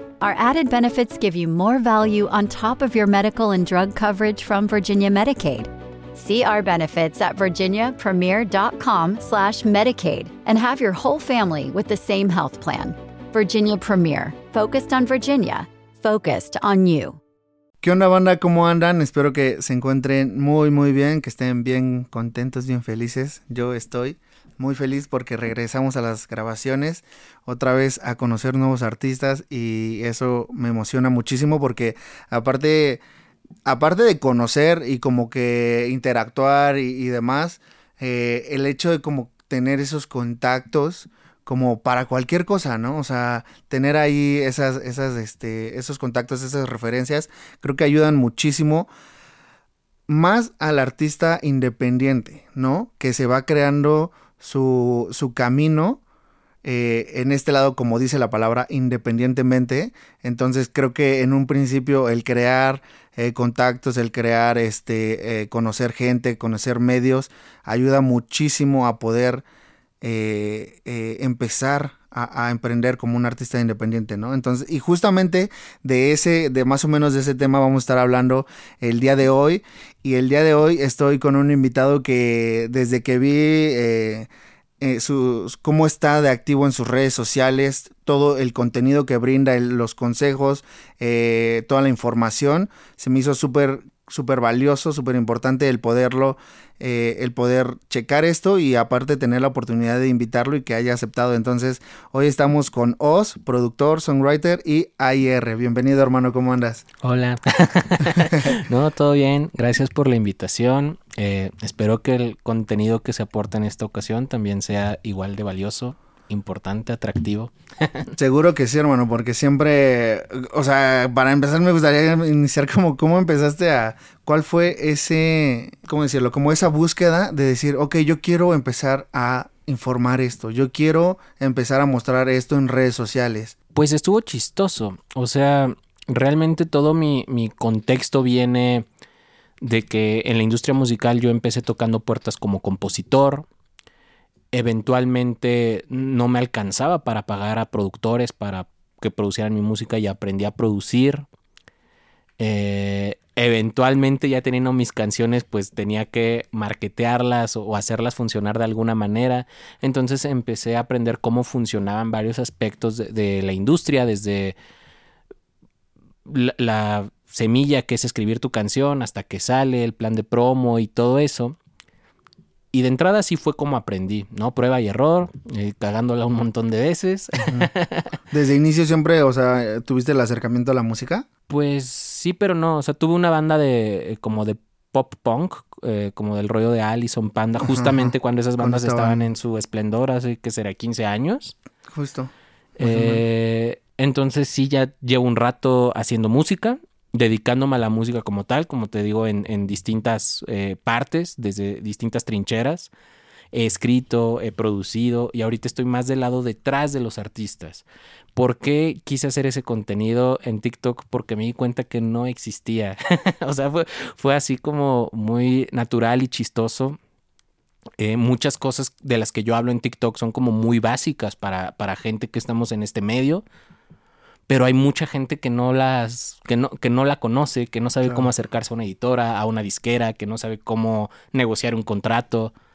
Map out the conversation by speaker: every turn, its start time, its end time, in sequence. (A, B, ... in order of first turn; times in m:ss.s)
0:00.2-0:17.2 A
0:17.8-0:33.0 B
0:33.6-0:48.9 B
0:50.1-0:56.0 B
0:56.6-1:09.4 B
1:10.0-1:24.3 B
1:24.8-1:46.8 B
1:47.0-1:58.1 C
1:58.2-2:13.5 B
2:13.7-2:18.8 C
2:19.6-2:23.4 C
2:24.5-2:31.2 C
2:32.4-2:44.6 C
2:46.2-2:51.6 C
2:52.7-2:58.1 C
2:58.3-3:01.2 B
3:01.5-3:11.5 C
3:07.6-3:09.2 B
3:11.9-3:13.2 B
3:12.8-3:22.9 C
3:23.5-3:27.8 C
3:28.4-3:37.0 C
3:38.0-3:43.4 C
3:44.5-3:52.5 C
3:48.0-3:48.3 B